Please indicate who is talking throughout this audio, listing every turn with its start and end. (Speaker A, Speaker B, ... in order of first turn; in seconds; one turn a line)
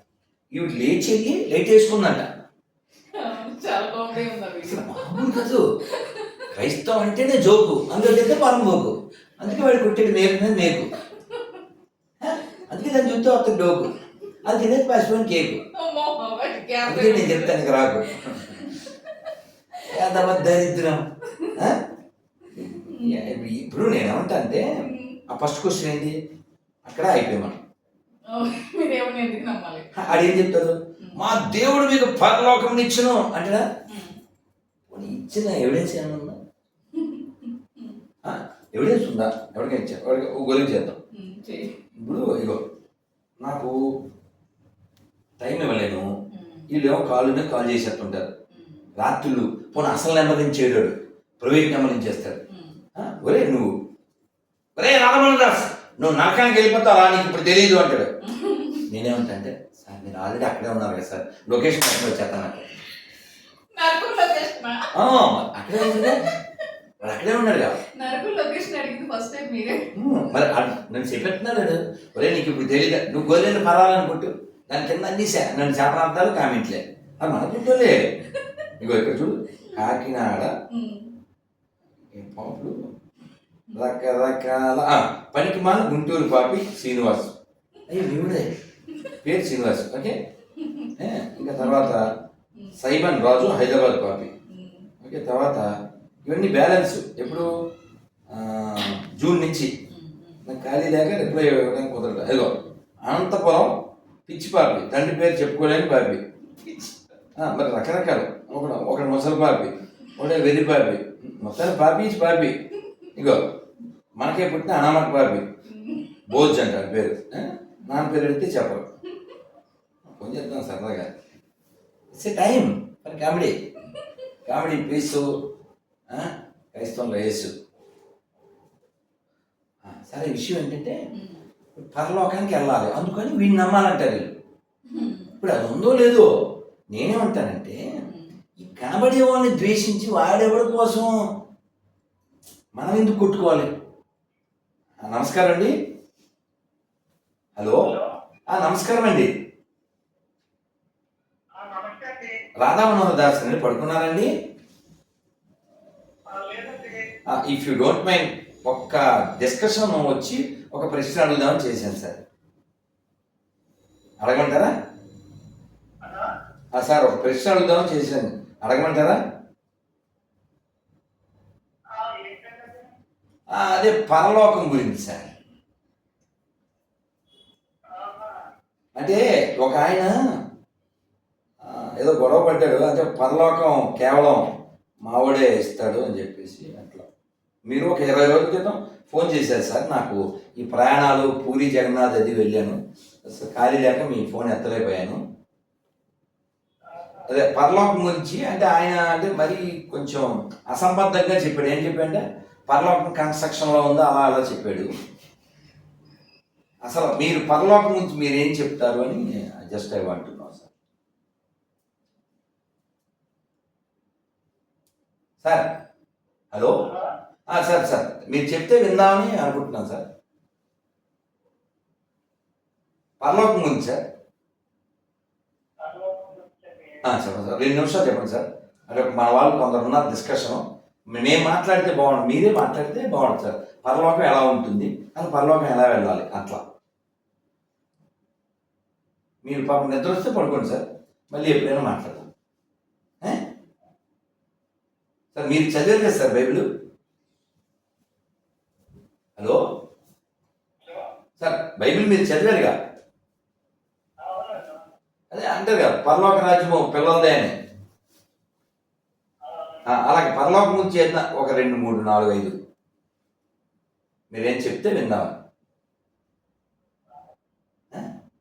Speaker A: 0.5-2.3
Speaker B: 3.1-5.2
Speaker A: 4.6-5.6
Speaker B: 5.9-6.5
Speaker A: 6.5-10.9
Speaker B: 11.0-11.6
Speaker A: 12.2-13.9
Speaker A: 14.4-15.6
Speaker B: 15.7-17.6
Speaker A: 16.8-18.7
Speaker B: 18.6-20.3
Speaker A: 19.9-21.0
Speaker A: 21.6-21.8
Speaker A: 22.5-24.7
Speaker B: 22.8-23.3
Speaker B: 24.8-25.2
Speaker A: 25.3-26.1
Speaker A: 26.9-27.6
Speaker B: 28.3-29.9
Speaker A: 29.9-33.6
Speaker B: 33.9-34.1
Speaker A: 34.9-36.4
Speaker B: 36.9-38.0
Speaker A: 38.2-41.0
Speaker B: 41.1-41.7
Speaker A: 42.0-42.6
Speaker A: 43.4-43.8
Speaker A: 45.4-46.1
Speaker B: 46.3-46.6
Speaker A: 46.7-48.3
Speaker B: 48.5-48.9
Speaker A: 49.0-52.4
Speaker B: 52.5-52.8
Speaker A: 53.0-53.7
Speaker A: 54.8-58.1
Speaker B: 58.2-58.9
Speaker A: 58.9-62.7
Speaker B: 63.7-64.9
Speaker A: 64.9-66.2
Speaker B: 65.8-66.3
Speaker A: 67.0-67.8
Speaker B: 68.0-69.9
Speaker A: 69.9-78.1
Speaker A: 78.8-80.6
Speaker B: 80.7-81.1
Speaker A: 82.1-82.9
Speaker A: 83.8-87.3
Speaker A: 87.9-88.5
Speaker A: 89.2-90.2
Speaker B: 90.6-90.9
Speaker A: 91.0-92.1
Speaker B: 91.6-91.9
Speaker A: 92.8-94.3
Speaker B: 94.5-94.9
Speaker A: 95.0-95.7
Speaker A: 96.2-97.5
Speaker A: 98.3-99.7
Speaker B: 99.9-100.4
Speaker A: 100.5-106.2
Speaker B: 106.6-106.9
Speaker A: 107.4-112.6
Speaker A: 113.1-113.4
Speaker A: 114.2-115.5
Speaker B: 115.7-116.2
Speaker A: 116.3-118.9
Speaker A: 120.1-121.1
Speaker A: 122.1-123.6
Speaker A: 124.5-125.3
Speaker A: 126.1-127.5
Speaker A: 129.8-131.0
Speaker B: 131.1-131.4
Speaker A: 131.8-134.3
Speaker B: 134.9-135.4
Speaker A: 135.4-136.3
Speaker A: 136.9-137.8
Speaker B: 138.0-138.3
Speaker A: 138.6-141.1
Speaker A: 142.8-143.7
Speaker A: 145.0-145.7
Speaker A: 147.6-147.9
Speaker C: 147.8-148.1
Speaker A: 148.5-149.3
Speaker C: 151.6-152.4
Speaker A: 152.6-154.3
Speaker C: 156.3-157.1
Speaker A: 157.3-162.2
Speaker A: 164.2-164.7
Speaker C: 166.0-166.3
Speaker A: 166.7-169.2
Speaker C: 171.9-172.9
Speaker A: 173.5-175.3
Speaker C: 177.9-178.5
Speaker A: 179.0-180.1
Speaker A: 181.6-187.1
Speaker A: 187.7-195.2
Speaker C: 196.8-197.3
Speaker A: 197.3-204.9
Speaker A: 206.8-210.7
Speaker A: 215.4-215.7
Speaker A: 216.5-216.8
Speaker C: 216.8-217.1
Speaker A: 217.5-220.1
Speaker A: 223.2-224.0
Speaker C: 225.8-227.1
Speaker A: 227.0-236.6
Speaker A: 239.4-242.3
Speaker A: 245.3-246.7
Speaker A: 249.4-249.6
Speaker C: 250.8-251.1
Speaker A: 251.4-252.8
Speaker C: 254.2-254.8
Speaker A: 255.3-257.5
Speaker C: 259.4-259.9
Speaker A: 259.9-262.6
Speaker A: 264.3-265.3